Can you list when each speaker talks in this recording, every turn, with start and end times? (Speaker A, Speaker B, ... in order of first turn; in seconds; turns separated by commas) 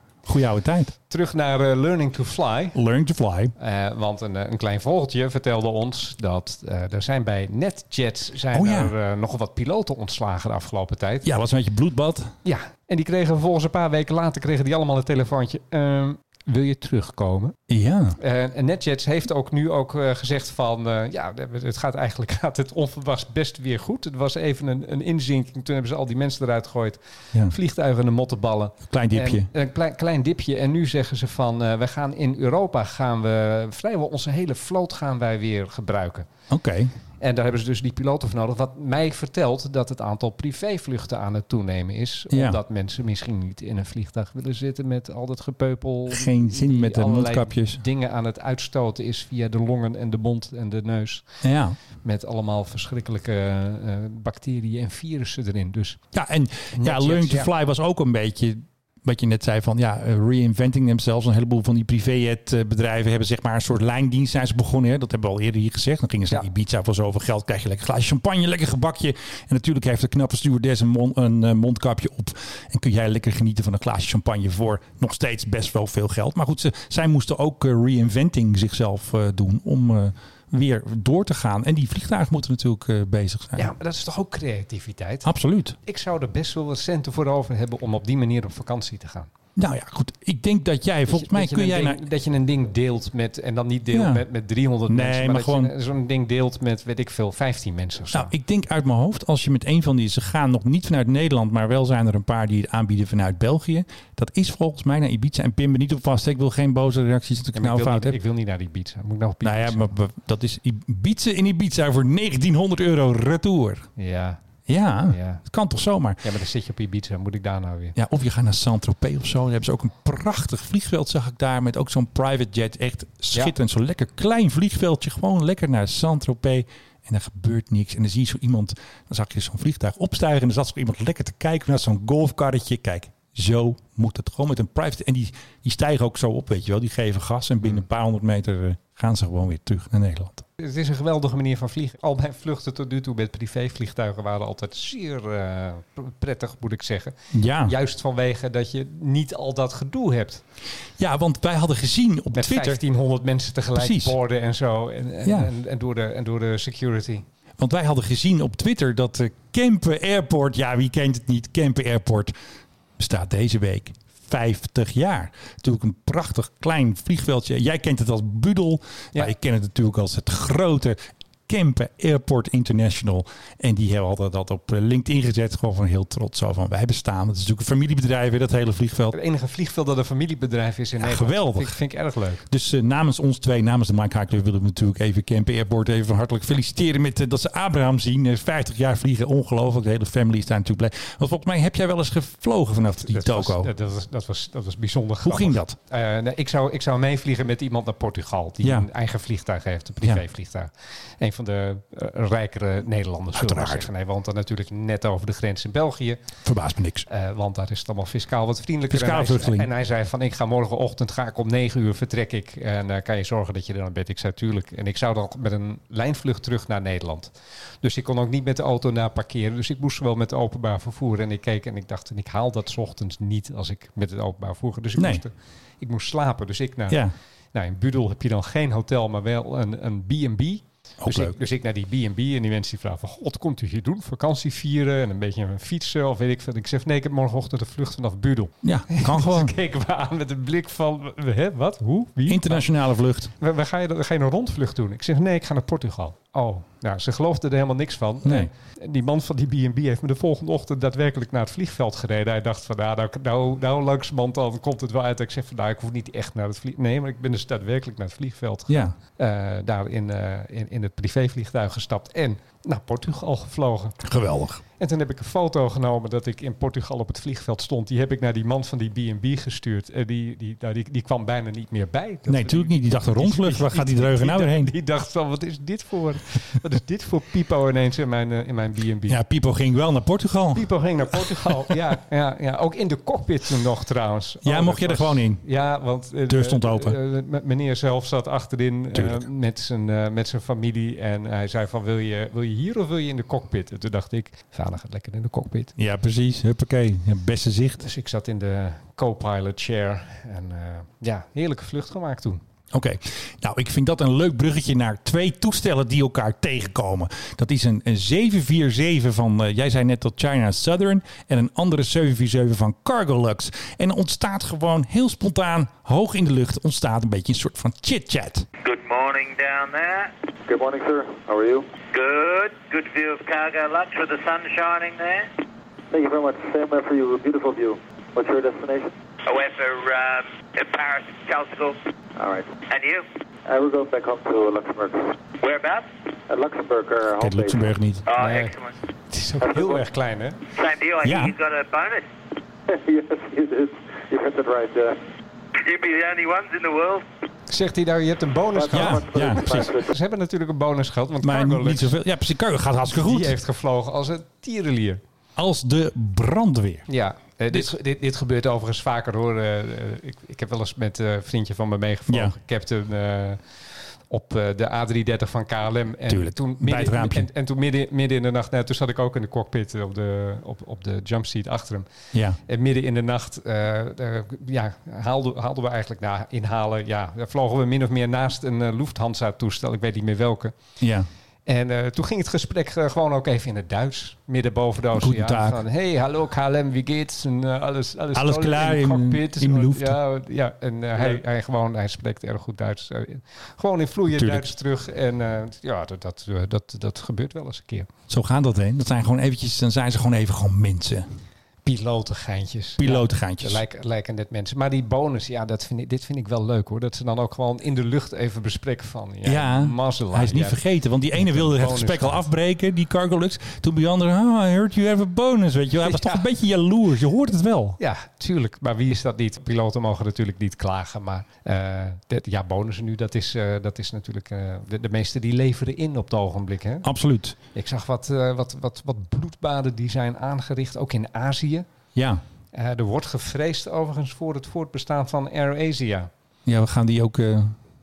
Speaker A: 0.2-0.9, Speaker B: 1.1-2.8, Speaker A: 2.7-3.5, Speaker B: 3.6-11.2, Speaker A: 8.5-8.9, Speaker A: 11.2-12.3, Speaker B: 12.4-17.6, Speaker A: 17.7-18.2, Speaker B: 18.2-36.3, Speaker A: 28.9-29.5, Speaker A: 36.5-36.9, Speaker B: 37.2-51.2, Speaker A: 42.3-42.6, Speaker A: 46.1-47.8, Speaker A: 51.4-51.8, Speaker B: 52.0-56.0, Speaker A: 56.1-83.7, Speaker B: 56.7-57.5, Speaker B: 83.6-85.3, Speaker A: 85.2-85.8, Speaker B: 85.8-89.3, Speaker A: 89.6-92.0, Speaker B: 91.1-98.3, Speaker A: 93.9-94.2, Speaker A: 94.9-95.7, Speaker A: 98.1-108.2, Speaker B: 107.5-109.9, Speaker A: 109.4-113.9, Speaker B: 114.0-114.4, Speaker A: 114.7-116.2, Speaker B: 115.1-115.4, Speaker B: 116.2-118.0, Speaker A: 118.0-140.4, Speaker B: 140.6-150.4, Speaker A: 147.3-147.8, Speaker A: 151.0-152.8, Speaker B: 152.3-157.2, Speaker A: 153.8-154.2, Speaker A: 155.2-155.5, Speaker A: 157.6-162.3, Speaker A: 163.0-179.2, Speaker B: 179.1-182.4, Speaker A: 181.0-181.7, Speaker A: 182.5-193.7, Speaker B: 192.9-206.2, Speaker A: 195.2-195.8, Speaker A: 203.3-203.9, Speaker A: 206.4-207.1, Speaker B: 207.1-227.0, Speaker A: 208.9-209.7, Speaker A: 225.0-225.2, Speaker A: 226.9-227.1, Speaker B: 227.5-242.7, Speaker A: 231.0-231.4, Speaker A: 238.6-239.5, Speaker A: 242.3-243.3, Speaker B: 243.4-264.0, Speaker A: 248.2-248.5, Speaker A: 258.7-258.9, Speaker A: 264.0-264.6, Speaker B: 264.8-279.2, Speaker A: 272.3-274.7, Speaker A: 279.1-281.8, Speaker B: 280.5-295.7, Speaker A: 284.4-285.4, Speaker A: 286.3-287.0, Speaker A: 288.9-289.2, Speaker A: 295.8-297.8, Speaker B: 297.8-302.4, Speaker A: 302.7-318.4, Speaker C: 318.6-320.1, Speaker D: 320.5-321.7, Speaker C: 321.9-325.3, Speaker D: 325.9-328.9, Speaker C: 329.3-331.8, Speaker D: 332.2-332.6, Speaker C: 332.7-333.1, Speaker D: 333.4-335.1, Speaker C: 335.4-335.9, Speaker D: 336.3-337.7, Speaker A: 337.2-338.1, Speaker C: 338.1-338.7, Speaker B: 338.1-338.6, Speaker B: 339.1-340.4, Speaker C: 340.5-342.1, Speaker A: 341.0-341.4, Speaker D: 342.7-345.0, Speaker C: 345.6-347.0, Speaker B: 347.5-351.9, Speaker D: 348.5-349.9, Speaker A: 348.7-349.7, Speaker A: 351.2-353.4, Speaker B: 352.9-355.0, Speaker A: 355.4-356.9, Speaker B: 356.9-363.4, Speaker A: 362.1-362.4, Speaker B: 364.1-371.9, Speaker A: 366.1-367.3, Speaker A: 372.1-372.4, Speaker B: 372.4-380.5, Speaker A: 380.8-381.1, Speaker B: 381.4-397.9, Speaker A: 384.9-385.6, Speaker A: 388.1-390.0, Speaker A: 394.1-394.5, Speaker A: 398.1-401.1, Speaker B: 401.6-410.6, Speaker A: 402.8-403.6, Speaker A: 409.2-417.8, Speaker B: 411.1-412.2, Speaker B: 415.8-416.2, Speaker B: 417.8-426.9, Speaker A: 426.8-427.4, Speaker B: 427.6-431.6, Speaker A: 431.9-432.2, Speaker B: 432.5-436.1, Speaker A: 436.4-437.6